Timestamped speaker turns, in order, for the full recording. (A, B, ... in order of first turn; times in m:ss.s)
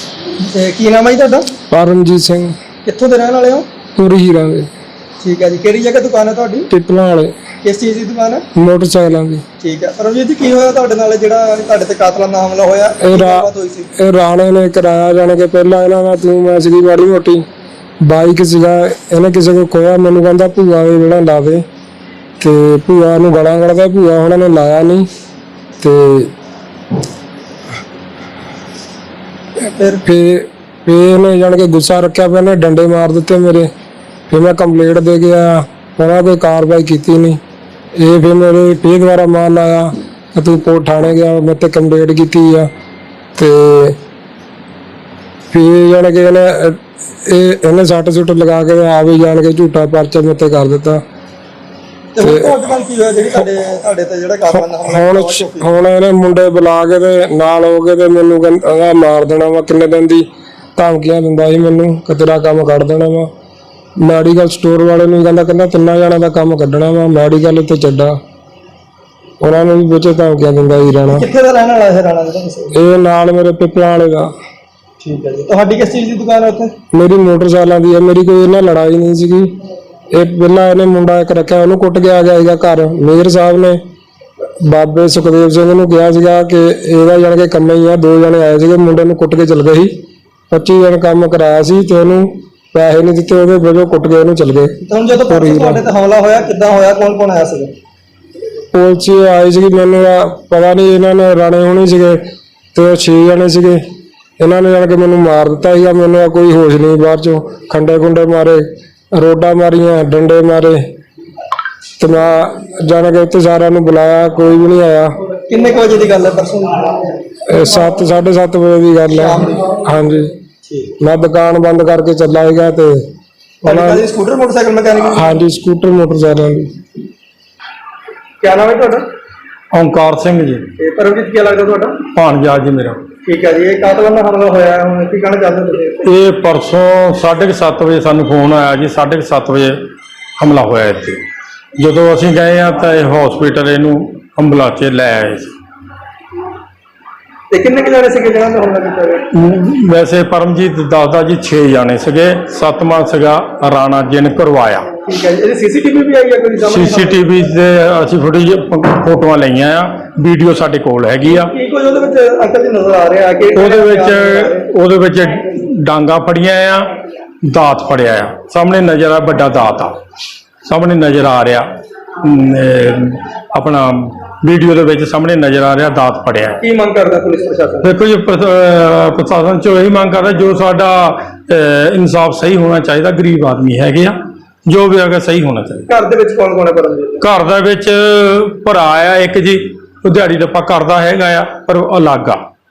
0:00.4-0:01.5 A
0:01.7-0:02.6 B
0:02.9-0:03.7 A
0:04.0-0:04.7 B
0:05.2-0:06.7 A
0:06.7-0:07.3 B
0:07.6-0:08.4 A
0:08.6-0:09.4 B
0:09.6-0:13.9 A
0:13.0-0:13.4 B
0:14.0-0:17.4 B
0:18.0-0:21.6 B
0:22.4-0:25.1 B
0:25.8-0:26.3 B
0:29.7-0:30.0 A
0:30.0-0:33.7 B
0:34.3-0:37.4 B
0:38.0-0:42.7 B
0:43.4-0:44.0 B
0:45.5-0:51.0 B
0:52.1-0:55.7 A
0:52.2-0:52.5 B
0:54.6-1:00.2 B
1:00.8-1:03.3 B
1:04.0-1:08.2 B
1:09.4-1:11.2 B
1:11.1-1:12.7 A
1:12.8-1:14.3 B
1:15.0-1:16.7 A
1:16.9-1:19.5 B
1:20.1-1:23.8 B
1:24.6-1:29.9 B
1:30.5-1:35.8 B
1:34.9-1:37.7 A
1:38.7-1:42.2 B
1:42.8-1:43.8 B
1:44.4-1:50.8 B
1:52.0-1:55.1 B
1:55.5-1:56.9 A
1:57.5-2:00.3 B
1:59.2-1:59.5 A
2:00.7-2:00.9 A
2:01.0-2:03.0 B
2:03.6-2:05.2 A
2:03.6-2:04.0 B
2:05.1-2:06.7 B
2:08.4-2:09.0 A
2:09.7-2:10.7 C
2:10.8-2:12.0 A
2:12.1-2:13.0 C
2:13.2-2:16.0 A
2:16.0-2:19.9 C
2:20.4-2:21.2 C
2:21.8-2:25.6 C
2:27.5-2:29.2 A
2:29.3-2:34.9 C
2:35.1-2:37.2 A
2:36.6-2:41.5 C
2:41.3-2:44.6 A
2:43.5-2:50.0 C
2:50.6-2:56.6 C
2:56.6-2:57.9 A
2:57.8-3:05.8 C
3:05.9-3:07.2 A
3:07.2-3:12.4 C